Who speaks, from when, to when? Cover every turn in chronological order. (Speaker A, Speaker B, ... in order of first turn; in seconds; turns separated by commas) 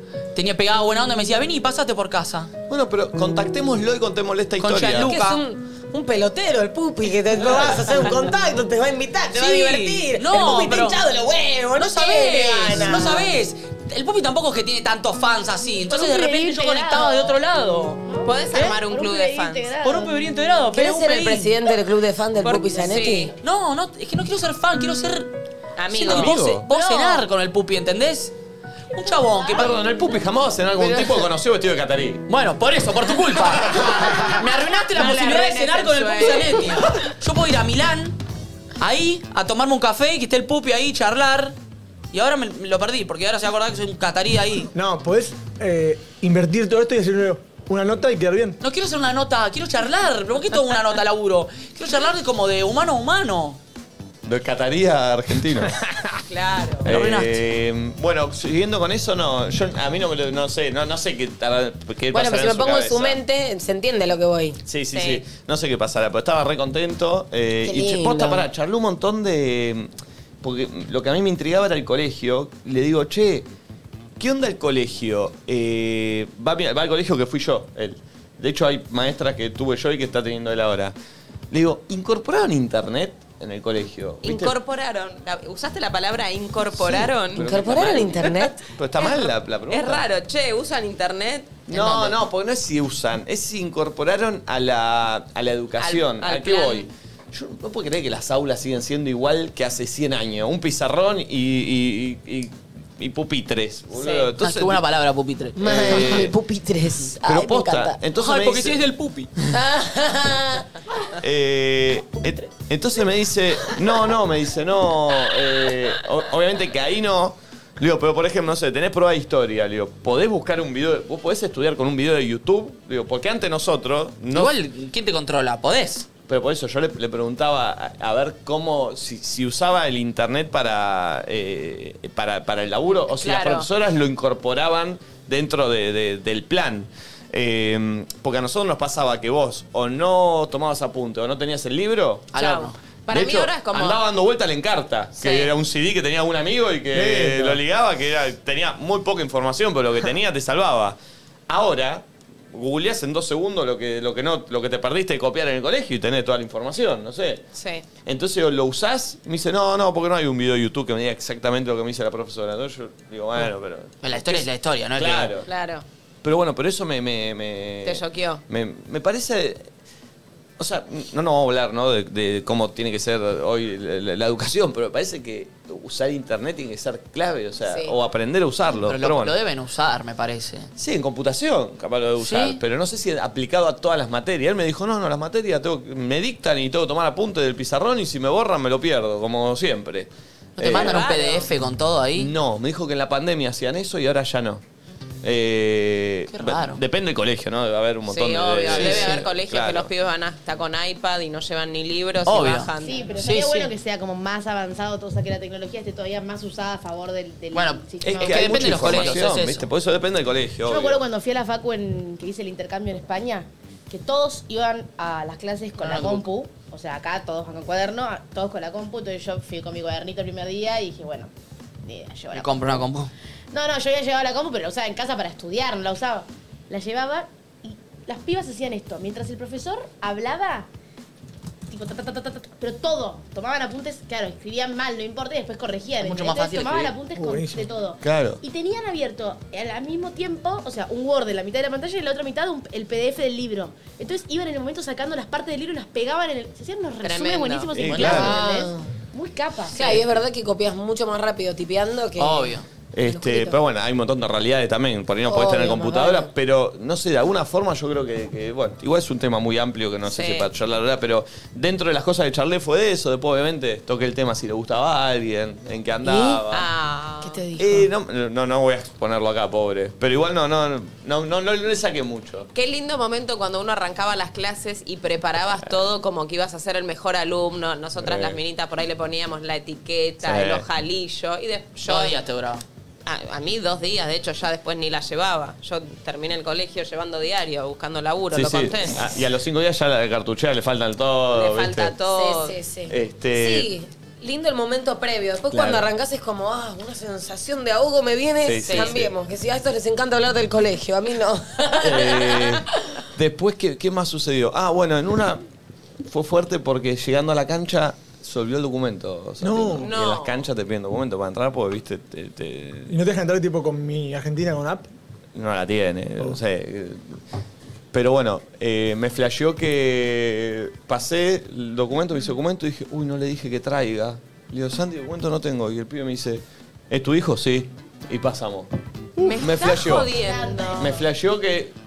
Speaker A: 0.3-2.5, Speaker B: 2.7-5.1, Speaker A: 4.6-5.4, Speaker C: 5.0-13.3, Speaker A: 9.3-11.0, Speaker A: 11.8-18.0, Speaker D: 15.8-17.4, Speaker D: 18.0-20.2, Speaker E: 18.2-19.7, Speaker A: 19.8-21.6, Speaker C: 20.7-23.3, Speaker E: 22.4-23.3, Speaker A: 23.4-25.4, Speaker E: 25.8-26.3, Speaker A: 25.9-28.3, Speaker B: 26.1-26.6, Speaker D: 26.7-27.2, Speaker A: 28.9-29.7, Speaker D: 29.1-29.8, Speaker B: 29.6-32.2, Speaker A: 32.3-38.2, Speaker E: 34.9-36.9, Speaker A: 38.8-41.5, Speaker A: 42.1-44.7, Speaker F: 44.8-48.6, Speaker A: 48.6-53.6, Speaker B: 54.2-55.8, Speaker E: 56.3-56.9, Speaker A: 56.9-57.4, Speaker B: 56.9-63.2, Speaker C: 62.1-64.6, Speaker B: 64.7-69.9, Speaker E: 64.9-65.2, Speaker C: 67.7-68.5, Speaker B: 70.4-73.5, Speaker B: 74.2-80.9, Speaker B: 81.5-84.6, Speaker E: 84.2-88.5, Speaker C: 86.8-88.6, Speaker B: 87.3-90.1, Speaker E: 89.0-91.7, Speaker A: 91.7-92.2, Speaker B: 91.7-104.8, Speaker E: 95.8-96.9, Speaker E: 103.9-104.3, Speaker A: 104.4-106.2, Speaker C: 105.6-108.0, Speaker B: 105.6-106.3, Speaker B: 107.2-108.8, Speaker A: 108.2-109.3, Speaker C: 109.5-110.7, Speaker B: 111.2-124.5, Speaker A: 124.3-126.1, Speaker B: 126.3-142.3, Speaker E: 133.1-133.7, Speaker A: 142.3-142.8, Speaker E: 142.3-144.0, Speaker B: 143.1-151.0, Speaker E: 145.2-145.5, Speaker F: 146.9-147.6, Speaker B: 151.5-157.4, Speaker E: 157.6-157.8, Speaker B: 158.0-165.5, Speaker A: 164.0-165.3, Speaker E: 165.5-165.8, Speaker B: 166.2-169.7, Speaker E: 167.8-168.4, Speaker B: 170.6-179.4, Speaker E: 177.7-178.0, Speaker A: 178.7-180.7, Speaker B: 180.8-191.0, Speaker A: 182.2-182.6, Speaker A: 190.6-192.3, Speaker E: 190.7-191.5, Speaker B: 192.2-194.6, Speaker B: 195.2-199.9, Speaker A: 196.3-196.8, Speaker E: 198.0-203.2, Speaker A: 198.7-199.2, Speaker A: 202.2-203.7, Speaker D: 202.8-209.1, Speaker A: 207.5-209.7, Speaker B: 208.0-211.0, Speaker D: 210.7-221.3, Speaker A: 215.8-216.3, Speaker D: 221.8-222.9, Speaker A: 222.3-223.1, Speaker D: 223.5-230.7, Speaker D: 231.7-249.8, Speaker A: 236.0-236.9, Speaker F: 237.2-237.7, Speaker B: 238.0-238.4, Speaker E: 247.0-248.1, Speaker B: 247.8-248.4, Speaker A: 247.9-248.4, Speaker C: 248.1-248.9, Speaker C: 249.7-253.6, Speaker E: 249.7-250.1, Speaker A: 252.2-252.7, Speaker B: 252.9-266.7, Speaker C: 255.2-256.3, Speaker E: 260.1-260.5, Speaker C: 266.0-266.4, Speaker E: 266.5-267.4, Speaker C: 267.2-267.9, Speaker B: 267.6-272.5, Speaker E: 272.5-282.2, Speaker B: 278.0-278.4, Speaker B: 280.2-280.6, Speaker A: 281.8-282.6, Speaker E: 283.1-289.0, Speaker B: 288.3-291.9, Speaker E: 291.3-292.6, Speaker C: 292.1-302.6, Speaker B: 292.9-293.7, Speaker B: 295.5-295.9, Speaker B: 298.4-299.1, Speaker E: 298.6-299.0, Speaker B: 301.8-305.4, Speaker B: 306.1-313.0, Speaker F: 309.4-309.9, Speaker E: 309.8-310.5, Speaker F: 312.9-314.9, Speaker B: 315.4-317.2, Speaker B: 317.9-328.7, Speaker E: 329.2-331.0, Speaker B: 329.4-330.2, Speaker D: 330.2-331.0, Speaker B: 330.8-331.8